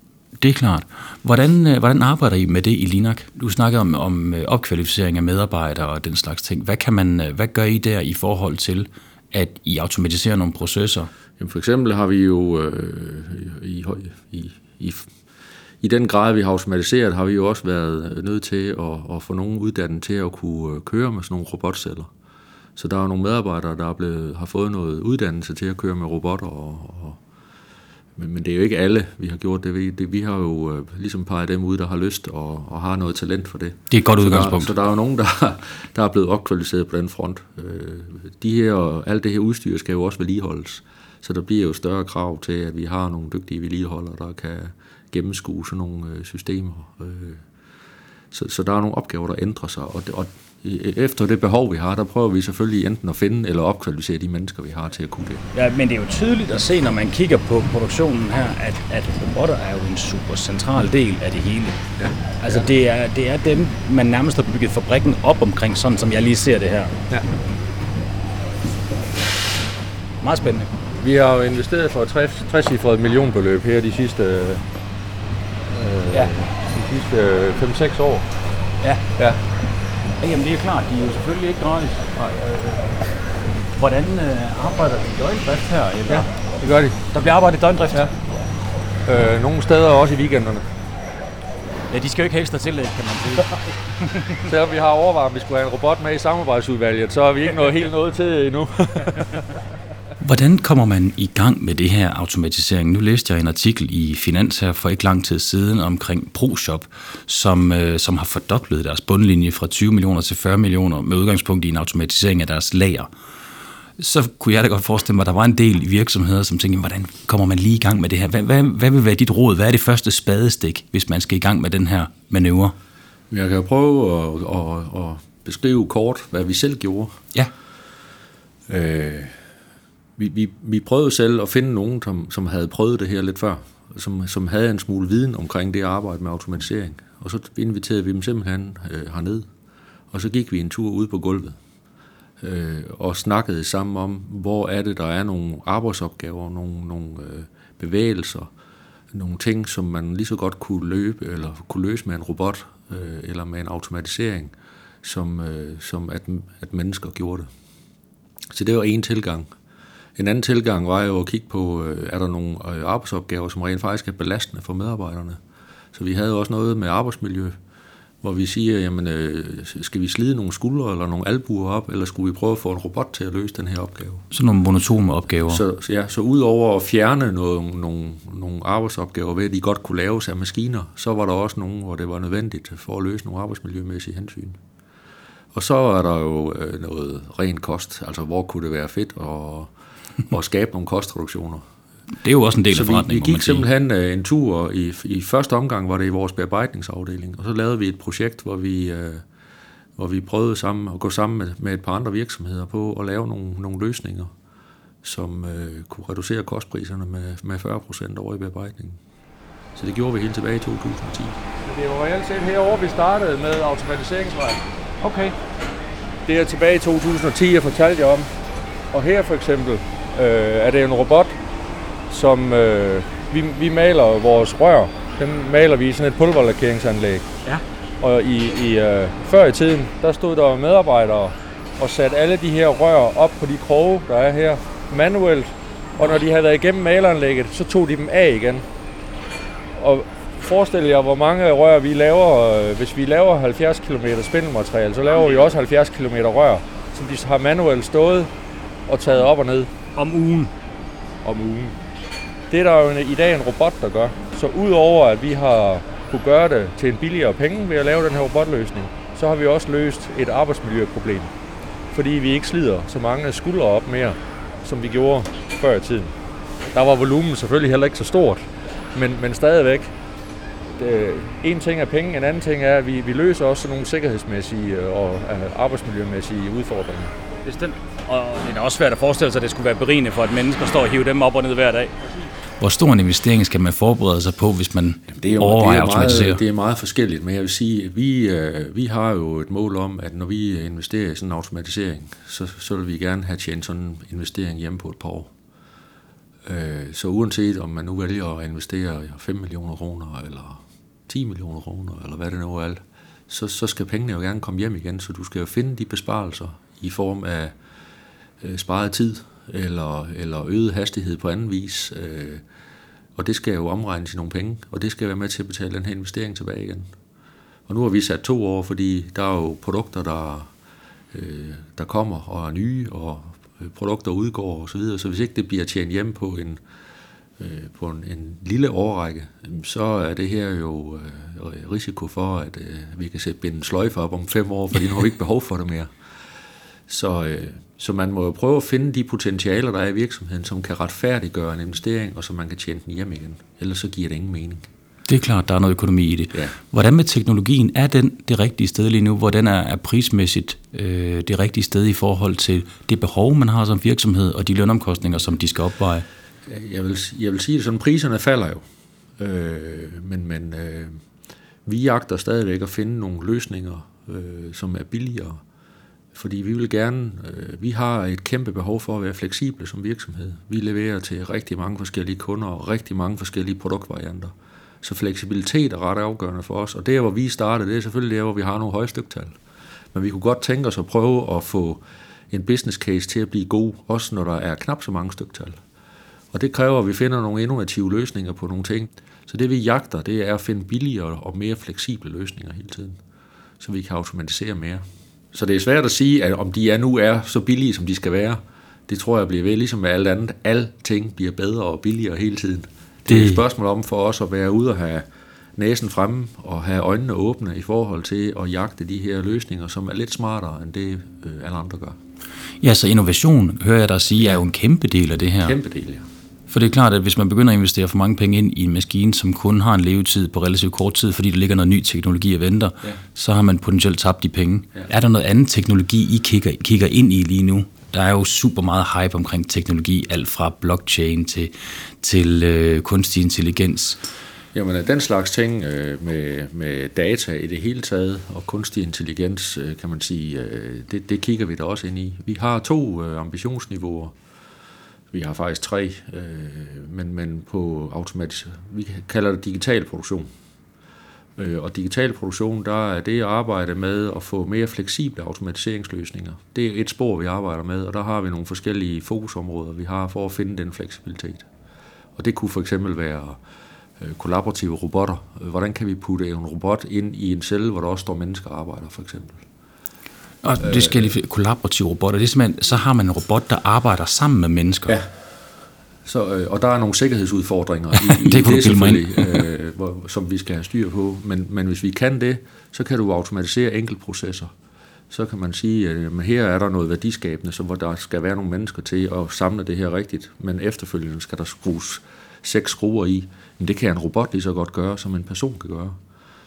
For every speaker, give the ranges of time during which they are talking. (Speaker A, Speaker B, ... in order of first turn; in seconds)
Speaker A: 0.4-11.1, 33.9-34.7, 100.2-113.1, 114.0-122.7, 174.3-175.6, 192.2-193.7, 282.6-286.4, 345.1-356.1, 403.1-403.4, 412.6-415.6, 416.5-434.0, 470.4-475.0, 477.9-479.5
Speaker B: 11.4-15.1, 15.8-22.1, 22.8-27.2, 28.1-47.4, 48.3-55.4, 62.0-62.7, 70.9-74.6, 75.7-78.3, 86.1-87.1, 89.0-90.7, 94.4-99.4, 123.3-127.2, 128.7-129.4, 130.2-139.5, 140.1-141.6, 142.4-148.5, 149.1-157.5, 158.5-159.5, 160.2-165.4, 165.9-167.6, 168.2-174.2, 175.5-184.6, 185.5-189.7, 190.3-191.6, 192.7-199.2, 200.0-204.3, 205.0-209.0, 209.8-214.7, 216.3-218.3, 218.9-221.3, 222.1-227.3, 228.0-238.6, 239.8-248.3, 248.9-249.7, 251.2-251.8, 252.5-261.3, 261.9-266.1, 266.7-269.9, 270.8-277.1, 285.1-295.3, 296.4-307.5, 308.4-312.4, 313.1-316.9, 317.7-320.5, 321.1-326.6, 327.4-335.9, 336.9-344.7, 356.4-358.6, 359.2-361.0, 361.6-365.4, 366.1-379.4, 379.9-385.6, 386.3-393.0, 393.6-412.0, 415.4-416.1, 434.5-444.1, 445.1-450.3, 451.4-461.5, 462.1-463.4, 464.0-469.4, 470.6-471.1, 474.9-475.2, 476.0-484.5, 485.1-496.0
Speaker C: 55.5-61.8, 62.4-66.9, 70.2-70.7, 80.2-83.0, 83.7-86.3, 87.1-88.1, 91.9-94.2, 215.0-215.3, 249.9-250.5, 277.4-282.1